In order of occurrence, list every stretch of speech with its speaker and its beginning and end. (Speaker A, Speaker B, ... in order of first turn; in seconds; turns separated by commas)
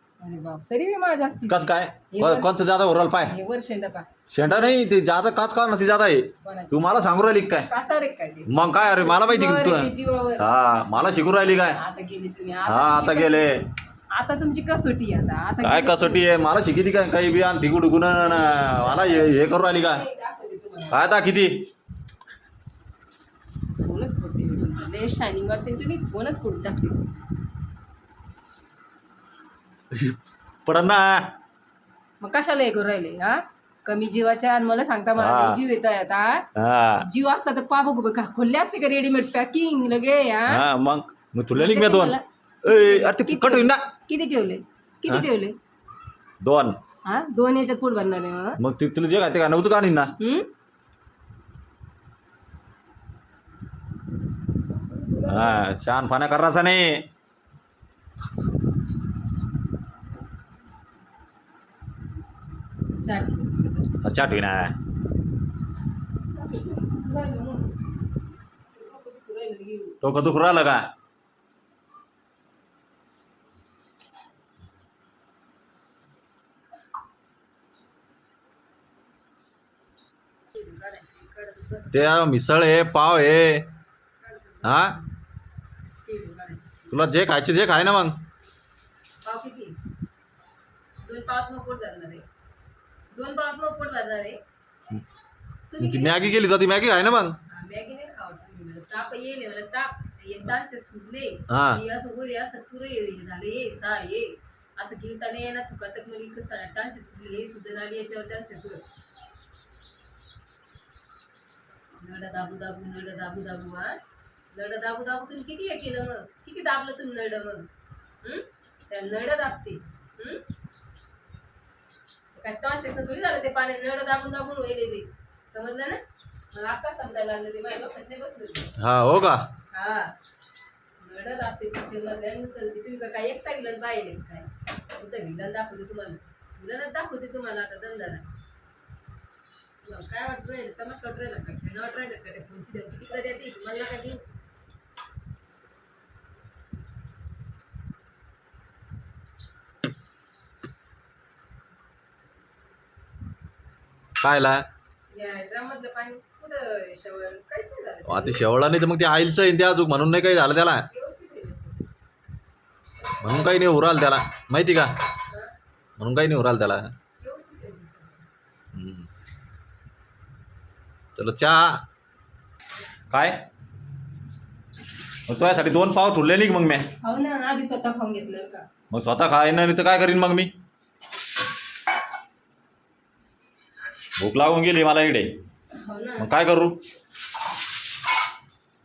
Speaker A: 0.2-2.5, Speaker B: 1.4-3.3, Speaker A: 3.2-4.1, Speaker B: 4.3-7.7, Speaker A: 6.4-6.9, Speaker A: 7.7-10.5, Speaker B: 8.5-11.8, Speaker A: 11.7-16.3, Speaker B: 12.7-13.7, Speaker B: 15.6-20.0, Speaker A: 18.2-21.1, Speaker B: 20.9-21.6, Speaker A: 23.8-27.1, Speaker B: 29.9-31.3, Speaker A: 32.2-36.5, Speaker B: 35.2-35.6, Speaker B: 36.5-37.0, Speaker A: 37.0-40.6, Speaker B: 40.5-43.8, Speaker A: 41.5-45.5, Speaker B: 46.4-46.8, Speaker A: 47.0-48.6, Speaker B: 48.6-50.1, Speaker A: 50.2-50.5, Speaker A: 55.0-55.6, Speaker B: 55.2-57.1, Speaker A: 62.8-64.1, Speaker B: 64.0-64.8, Speaker A: 66.3-67.8, Speaker A: 68.7-70.0, Speaker B: 70.0-70.9, Speaker A: 80.5-82.0, Speaker B: 81.9-83.7, Speaker A: 84.2-85.1, Speaker B: 84.6-85.0, Speaker A: 86.0-87.0, Speaker B: 86.9-88.2, Speaker A: 89.2-89.8, Speaker A: 91.0-92.2, Speaker A: 93.1-94.4, Speaker A: 95.7-96.3, Speaker B: 95.8-97.4, Speaker A: 97.5-108.8, Speaker B: 101.5-101.8, Speaker A: 111.9-114.0, Speaker A: 114.5-117.7, Speaker A: 118.2-120.4, Speaker A: 122.3-126.0, Speaker A: 126.5-128.7, Speaker B: 128.8-129.5, Speaker A: 129.7-130.1, Speaker A: 131.0-138.3, Speaker A: 139.8-144.2, Speaker B: 154.2-154.6, Speaker A: 155.1-158.4, Speaker B: 158.0-160.8, Speaker A: 160.9-161.8, Speaker A: 163.0-163.7, Speaker B: 163.2-164.9, Speaker B: 166.0-166.9, Speaker A: 167.2-168.2, Speaker B: 168.7-169.1, Speaker B: 171.2-171.8, Speaker B: 173.1-173.4, Speaker B: 175.3-176.9, Speaker A: 177.0-178.7, Speaker B: 178.9-180.5, Speaker B: 184.2-185.3, Speaker A: 185.7-186.3, Speaker B: 186.2-186.8